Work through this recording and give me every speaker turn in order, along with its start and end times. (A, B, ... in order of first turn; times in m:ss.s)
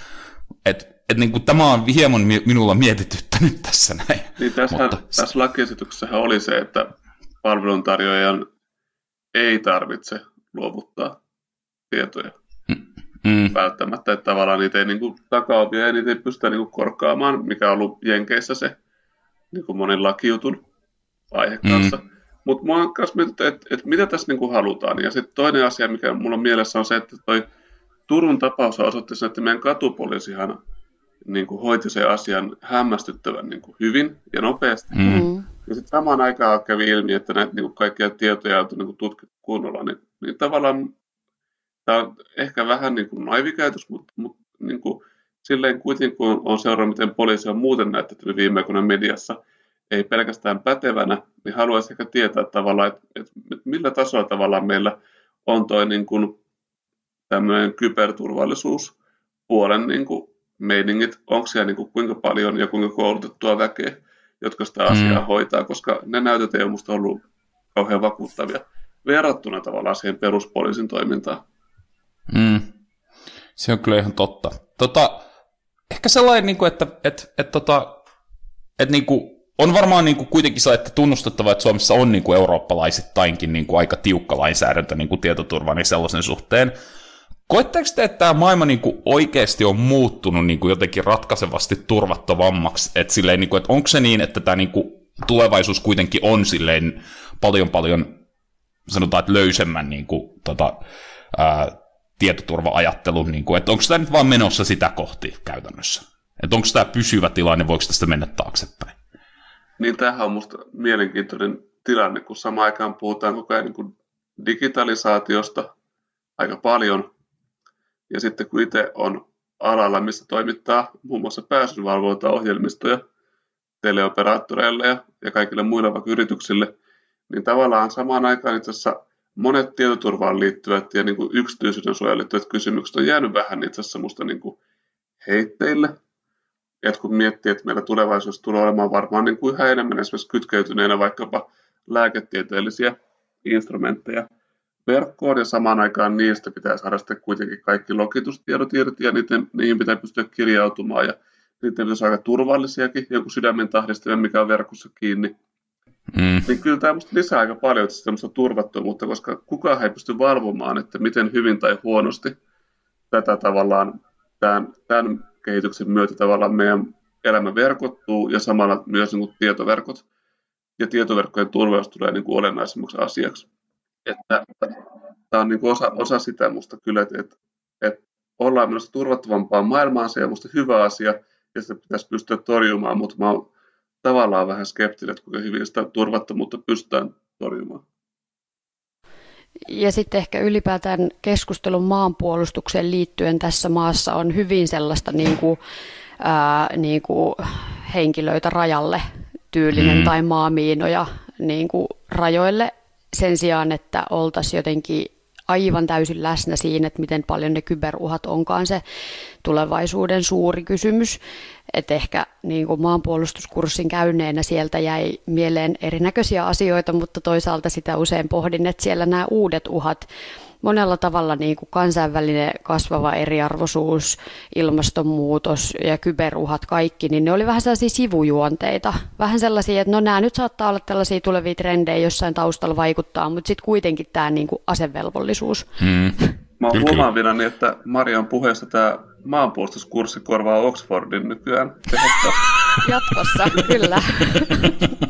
0:00.6-0:05.2 A
0:04.4-0:06.9 B
0:07.4-0:08.5 B
0:09.3-0:11.2 B
0:11.9-0:12.4 B
0:12.7-0:13.6 A
0:13.5-0:18.8 B
0:19.5-0:20.6 B
0:21.3-0:27.4 B
0:21.6-0:22.0 A
0:28.1-0:30.6 B
0:31.2-0:35.0 B
0:34.9-0:35.3 A
0:35.0-0:35.4 C
0:35.7-0:40.9 B
0:41.9-0:49.4 B
0:49.9-0:55.0 B
0:55.5-0:56.4 B
0:57.3-0:58.9 B
0:59.5-1:11.4 B
1:04.9-1:05.2 A
1:12.3-1:12.7 A
1:13.6-1:15.2 A
1:15.9-1:18.0 A
1:18.8-1:26.7 A
1:27.5-1:38.2 A
1:38.9-1:40.8 A
1:41.3-1:49.0 A
1:49.8-1:55.7 B
1:56.4-1:57.1 B
1:58.1-2:03.0 B
2:03.8-2:06.7 B
2:07.3-2:14.6 B
2:15.2-2:16.0 B
2:16.8-2:24.3 B
2:24.9-2:35.3 B
2:36.1-2:36.5 A
2:36.5-2:42.4 B
2:43.1-2:50.0 B
2:50.8-2:53.5 B
2:54.1-3:03.5 B
3:04.0-3:07.8 B
3:09.6-3:15.6 C
3:16.2-3:28.8 C
3:19.7-3:20.1 A
3:29.4-3:31.2 C
3:31.7-3:40.1 C
3:40.6-3:55.7 C
3:55.8-3:56.2 A
3:56.6-4:02.4 B
3:56.7-3:57.0 A
4:02.8-4:04.6 C